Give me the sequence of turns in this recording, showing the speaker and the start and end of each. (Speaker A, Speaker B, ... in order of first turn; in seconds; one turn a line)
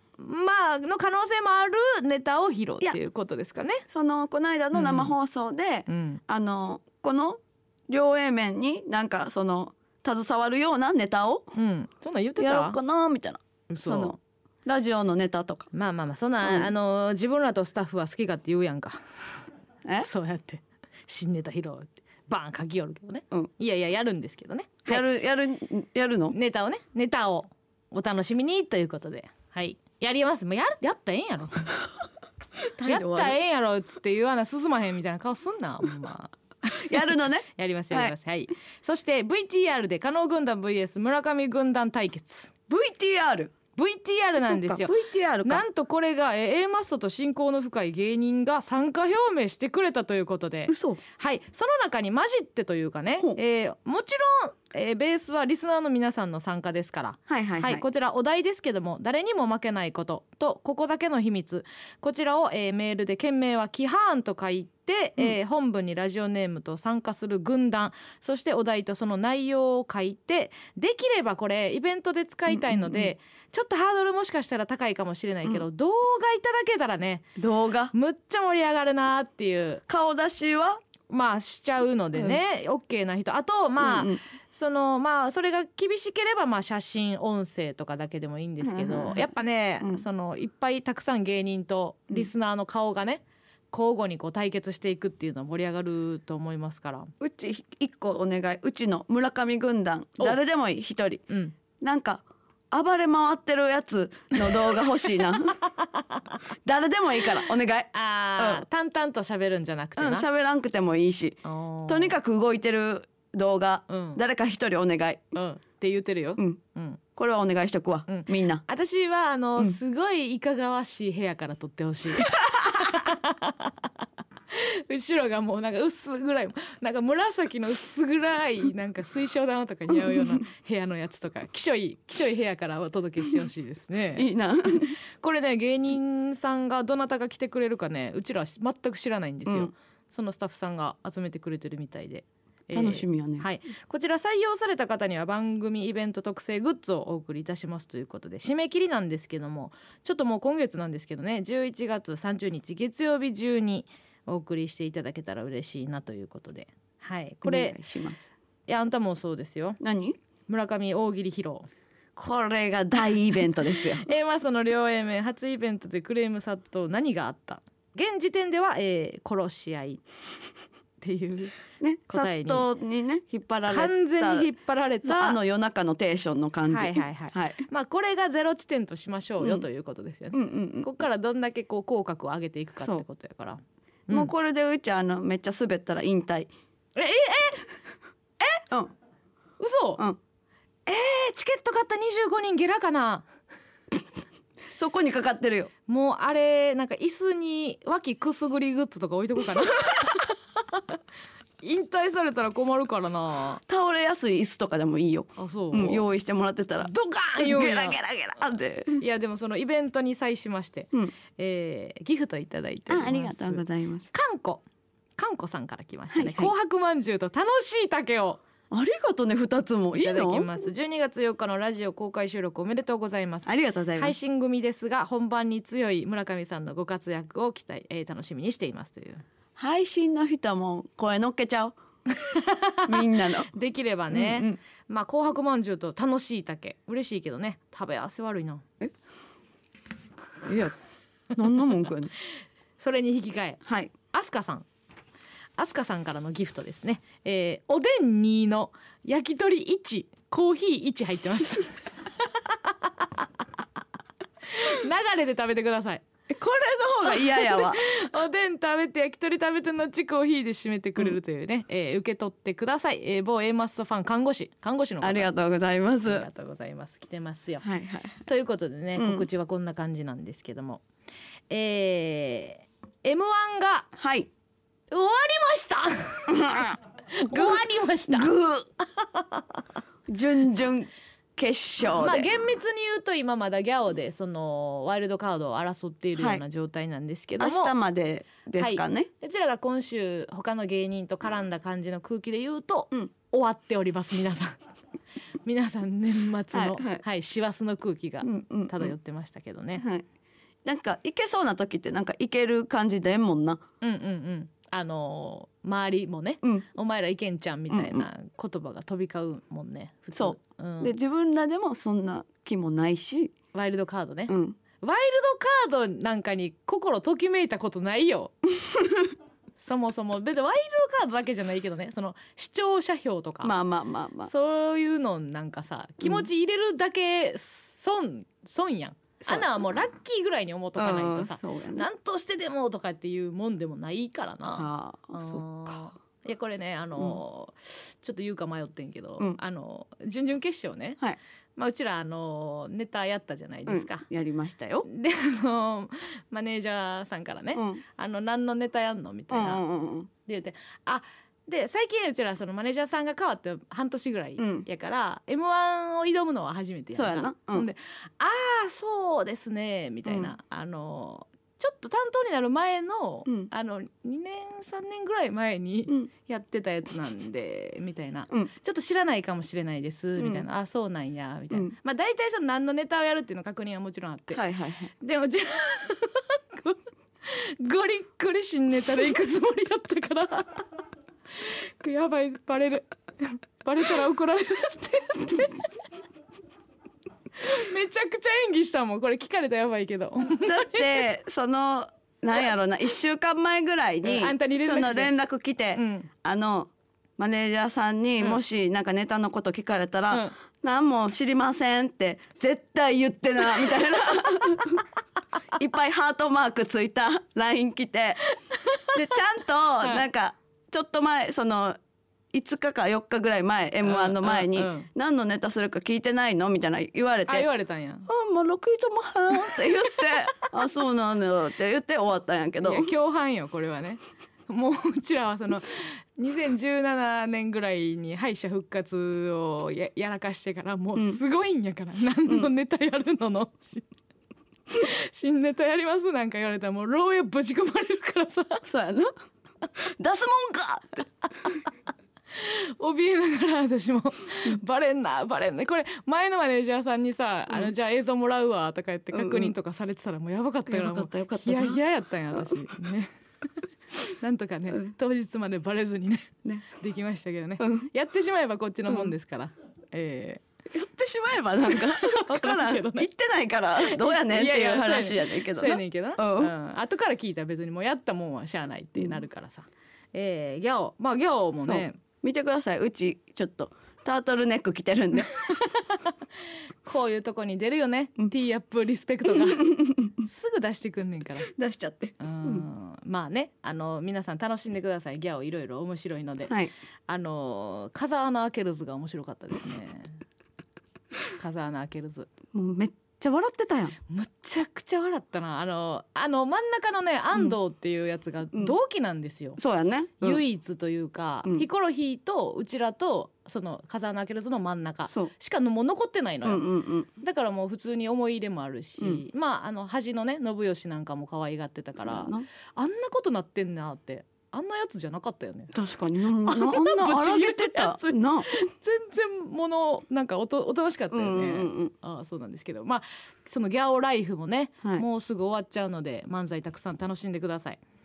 Speaker A: 0.2-3.8
Speaker B: 3.9-11.5
Speaker A: 4.7-5.1
Speaker A: 5.9-6.2
Speaker A: 11.5-12.8
Speaker B: 12.4-15.7
Speaker A: 13.7-14.1
Speaker A: 15.7-19.0
Speaker B: 16.4-16.7
Speaker A: 20.0-25.0
Speaker B: 24.9-26.4
Speaker A: 26.3-31.7
Speaker B: 32.8-33.4
Speaker A: 32.8-42.5
Speaker B: 36.7-38.1
Speaker B: 42.7-43.5
Speaker A: 43.7-44.9
Speaker B: 44.4-45.6
Speaker A: 45.4-77.3
Speaker B: 50.7-51.0
Speaker B: 57.3-57.8
Speaker B: 72.5-73.1
Speaker B: 77.4-77.9
Speaker A: 77.9-79.8
Speaker B: 79.9-80.8
Speaker A: 81.1-97.1
Speaker B: 82.1-82.4
Speaker B: 83.8-84.2
Speaker B: 88.6-90.0
Speaker B: 97.2-101.2
Speaker A: 101.3-101.5
Speaker B: 101.8-105.6
Speaker A: 105.8-106.3
Speaker B: 106.6-108.6
Speaker A: 107.9-110.2
Speaker B: 110.0-115.3
Speaker A: 111.4-112.1
Speaker A: 113.9-114.2
Speaker A: 115.3-117.0
Speaker B: 117.2-118.6
Speaker A: 118.1-123.8
Speaker A: 124.5-157.8
Speaker B: 134.2-134.9
Speaker B: 139.4-139.7
Speaker B: 142.7-143.4
Speaker B: 157.4-158.3
Speaker A: 158.7-159.8
Speaker B: 159.8-160.2
Speaker A: 160.5-161.7
Speaker B: 162.2-164.1
Speaker A: 163.9-170.0
Speaker A: 171.0-171.6
Speaker B: 171.8-174.5
Speaker A: 172.1-172.6
Speaker A: 173.7-175.4
Speaker B: 175.1-177.6
Speaker A: 176.7-184.3
Speaker B: 180.3-180.9
Speaker B: 184.1-186.5
Speaker A: 186.9-187.7
Speaker B: 188.5-188.9
Speaker A: 189.6-190.0
Speaker A: 190.8-193.3
Speaker B: 194.8-195.7
Speaker A: 195.9-200.9
Speaker A: 201.6-203.6
Speaker B: 203.7-209.0
Speaker A: 205.4-206.0
Speaker A: 206.8-208.0
Speaker A: 209.0-214.6
Speaker B: 212.9-214.1
Speaker A: 215.2-218.4
Speaker B: 216.1-216.5
Speaker B: 218.7-220.6
Speaker A: 219.9-229.2
Speaker B: 223.4-224.1
Speaker B: 229.6-231.7
Speaker A: 232.1-238.6
Speaker B: 232.8-233.5
Speaker B: 234.1-234.6
Speaker B: 240.4-240.7
Speaker B: 241.3-242.1
Speaker A: 242.8-244.7
Speaker B: 243.6-243.9
Speaker A: 245.6-253.2
Speaker A: 254.5-256.0
Speaker B: 256.3-257.8
Speaker A: 257.1-265.3
Speaker B: 265.0-266.2
Speaker A: 266.1-267.6
Speaker B: 267.6-268.2
Speaker A: 268.2-270.8
Speaker B: 268.9-269.2
Speaker A: 271.5-273.9
Speaker B: 274.0-274.3
Speaker A: 274.9-276.5
Speaker B: 276.3-276.8
Speaker A: 277.1-278.3
Speaker B: 277.3-278.7
Speaker A: 279.0-279.4
Speaker B: 280.1-282.3
Speaker A: 281.9-287.7
Speaker B: 286.1-286.4
Speaker B: 287.4-289.1
Speaker A: 288.6-294.6
Speaker A: 295.4-299.8
Speaker B: 296.5-297.0
Speaker B: 298.2-298.9
Speaker B: 299.8-300.0
Speaker B: 300.6-303.6
Speaker A: 303.8-310.9
Speaker B: 307.7-308.0
Speaker B: 310.1-313.3
Speaker A: 313.5-318.3
Speaker B: 314.3-314.6
Speaker B: 318.6-319.1
Speaker A: 319.6-323.5
Speaker B: 323.4-324.3
Speaker A: 324.3-341.0
Speaker B: 326.0-326.3
Speaker B: 329.2-329.6
Speaker B: 330.8-331.9
Speaker B: 334.5-335.8
Speaker A: 341.6-344.0
Speaker B: 343.7-344.9
Speaker A: 344.9-349.6
Speaker B: 347.5-347.8
Speaker B: 349.3-350.1
Speaker A: 350.2-374.4
Speaker B: 354.4-354.7
Speaker B: 356.9-357.7
Speaker B: 360.0-360.3
Speaker B: 370.2-370.4
Speaker B: 374.3-374.9
Speaker A: 375.0-380.7
Speaker A: 381.4-385.7
Speaker A: 387.4-391.0
Speaker B: 390.4-404.8
Speaker A: 394.0-395.1
Speaker A: 395.8-396.1
Speaker B: 405.6-408.2
Speaker A: 408.5-408.9
Speaker B: 408.9-411.8
Speaker B: 412.3-417.5
Speaker A: 413.8-414.9
Speaker A: 417.3-418.1
Speaker B: 418.1-422.9
Speaker A: 422.6-433.9
Speaker A: 434.7-438.6
Speaker B: 438.6-439.1
Speaker B: 440.0-441.0
Speaker A: 442.3-453.1
Speaker B: 449.1-449.5
Speaker B: 450.7-451.8
Speaker B: 452.3-452.6
Speaker A: 454.0-460.4
Speaker B: 457.6-457.9
Speaker B: 460.7-466.5
Speaker A: 461.7-463.1
Speaker A: 463.8-472.0
Speaker B: 471.6-475.5
Speaker A: 475.3-476.2
Speaker A: 476.8-481.5
Speaker B: 479.6-480.1
Speaker B: 481.5-482.6
Speaker A: 482.2-486.5
Speaker B: 486.5-486.7
Speaker A: 487.1-490.2
Speaker A: 491.4-492.3
Speaker B: 492.5-493.9
Speaker A: 494.1-499.6
Speaker B: 499.6-500.4
Speaker A: 500.2-506.6
Speaker B: 506.4-507.1
Speaker A: 507.2-515.7
Speaker B: 512.0-512.4
Speaker B: 515.7-518.5
Speaker A: 516.4-527.8
Speaker B: 521.1-521.9